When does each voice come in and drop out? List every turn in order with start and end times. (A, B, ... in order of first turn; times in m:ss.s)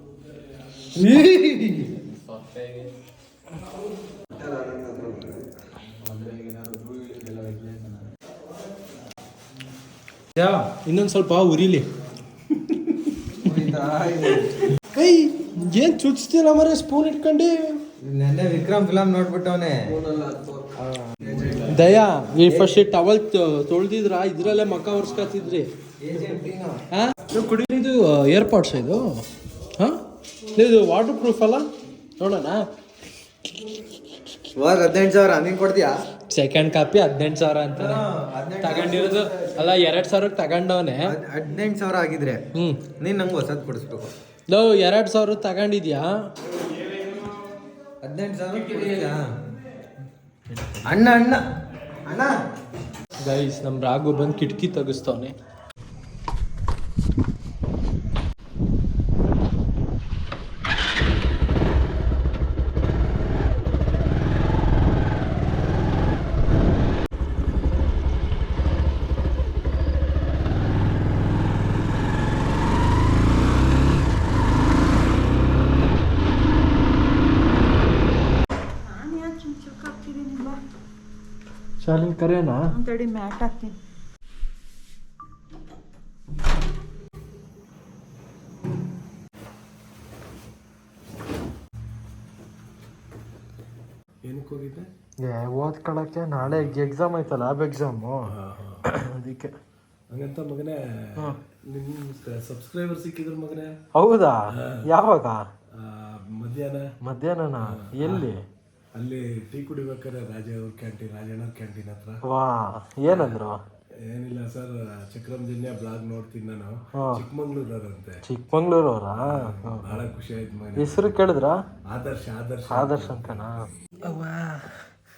0:00.9-0:02.0 A
0:04.4-0:05.4 A
0:06.0-0:07.9 A
0:06.9-0:07.3 B
0:10.4-0:11.8 C
0:13.4-0:14.5 A
0:14.3-0:17.8 C
0:18.0-0:21.9 A
0:20.1-0:20.7 B
0:21.7-0:25.7 C
0:22.4-0:22.8 A
0:26.0-0:26.8 A
0:26.9-0:29.0 C
0:30.5-0:31.7 C
0:32.2-0:32.6 C
0:34.6-0:35.9 A
0:36.3-0:38.0 C
0:37.8-0:39.7 A
0:38.6-0:41.1 C
0:41.1-0:42.4 A
0:42.5-0:42.9 C
0:43.0-0:44.1 A
0:44.5-0:46.1 C
0:48.0-0:49.2 A
0:48.5-0:49.1 C
0:50.5-0:51.0 C
0:50.9-0:51.4 A
0:52.0-0:52.4 A
0:53.2-0:55.3 C
1:18.8-1:20.6 B
1:21.8-1:22.7 C
1:22.7-1:23.8 B
1:34.2-1:34.9 D
1:35.2-1:38.3 C
1:36.4-1:36.7 D
1:38.3-1:38.8 D
1:38.8-1:39.5 C
1:40.1-1:43.8 D
1:43.9-1:45.4 C
1:44.5-1:44.8 D
1:45.7-1:46.9 D
1:47.0-1:48.4 C
1:47.7-1:48.3 D
1:48.9-1:52.2 D
1:52.3-1:53.6 C
1:53.0-1:53.4 D
1:54.0-1:58.2 D
1:56.9-1:57.2 C
1:58.2-2:00.0 C
1:59.2-2:01.2 D
2:00.8-2:01.6 C
2:01.9-2:03.5 D
2:02.7-2:04.7 C